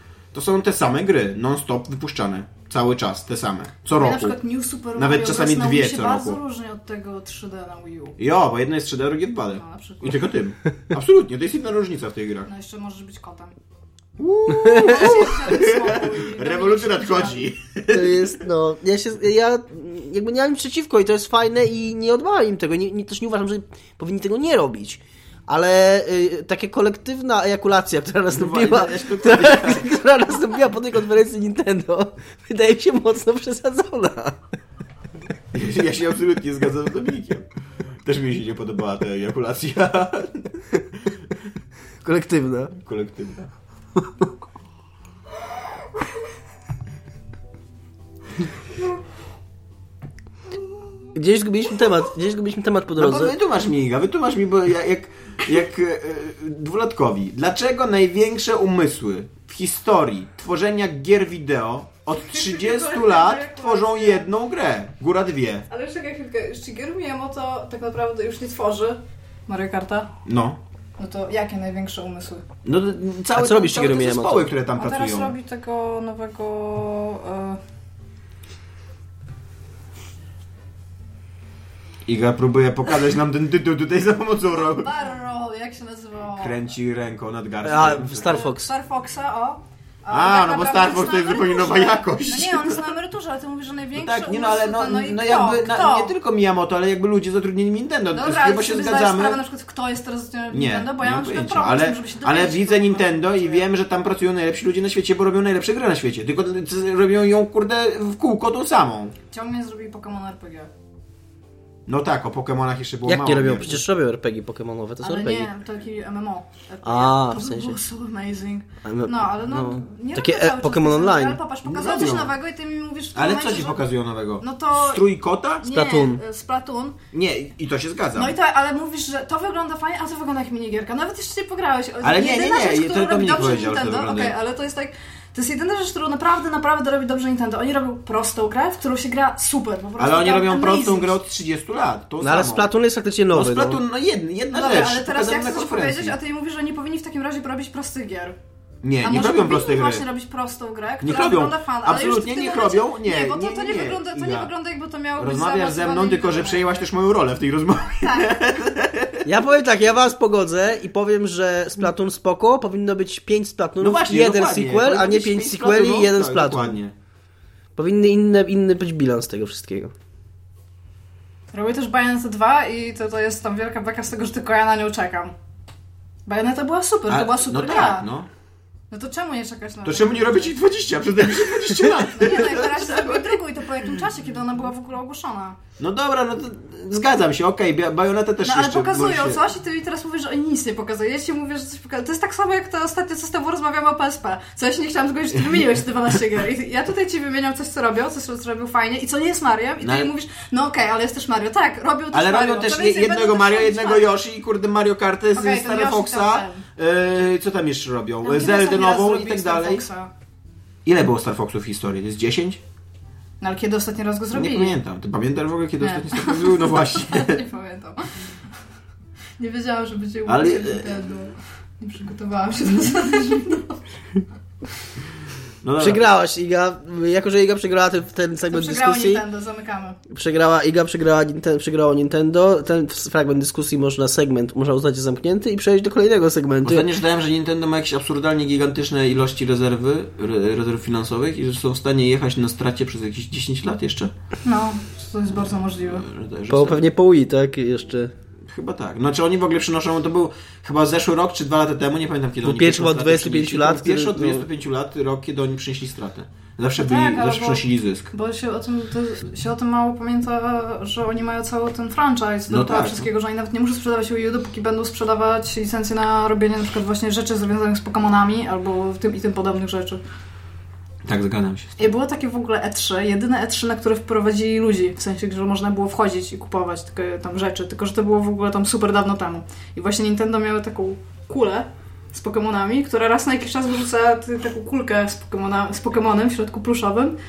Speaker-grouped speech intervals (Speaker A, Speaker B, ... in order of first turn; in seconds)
Speaker A: 0.3-4.4, 5.0-6.4, 8.2-12.5, 14.2-18.3, 28.3-29.9, 35.5-37.5, 38.0-41.1, 42.8-43.5, 53.0-65.7, 70.2-70.6, 72.6-75.3, 82.1-84.9, 86.4-88.4, 90.1-92.8, 93.9-99.4, 100.5-109.1, 111.9-113.8, 121.6-122.3, 123.1-125.6, 127.1-128.3, 132.0-134.3, 140.0-142.7, 143.3-146.2, 148.8-150.0, 151.0-154.5, 155.2-159.2, 163.8-166.9, 177.1-178.3, 179.8-183.4, 185.8-189.4, 199.8-200.1, 202.1-209.8, 210.8-212.6, 214.3-217.4, 220.3-221.0, 225.6-226.0, 236.6-244.1, 245.8-246.8, 248.4-258.1, 262.5-263.1, 271.0-271.9
Speaker B: 3.9-8.2, 9.6-10.3, 12.4-13.5, 14.7-17.5, 62.2-64.3, 65.7-70.1, 71.0-72.4, 74.8-77.6, 84.5-86.6, 88.1-96.1, 98.1-103.7, 109.3-110.7, 115.0-125.0, 125.6-127.0, 128.2-141.2, 144.5-148.3, 149.0-156.8, 158.0-158.4, 171.5-175.3, 176.2-178.1, 178.9-180.5, 182.1-185.6, 188.4-204.1, 205.3-206.6, 208.2-210.1, 213.4-214.8, 215.8-218.1, 219.4-223.8, 228.5-230.0, 244.4-246.0, 256.8-270.0, 271.8-287.2
Speaker C: 14.7-14.9, 17.9-34.4, 42.0-42.7, 44.0-44.3, 51.1-53.4, 73.3-74.5, 87.6-88.7, 113.0-115.5, 116.8-117.8, 118.8-121.4, 125.7-126.2, 142.2-143.8, 159.2-166.8, 167.8-169.9, 225.8-229.2, 230.1-236.9, 246.5-248.1, 252.4-254.4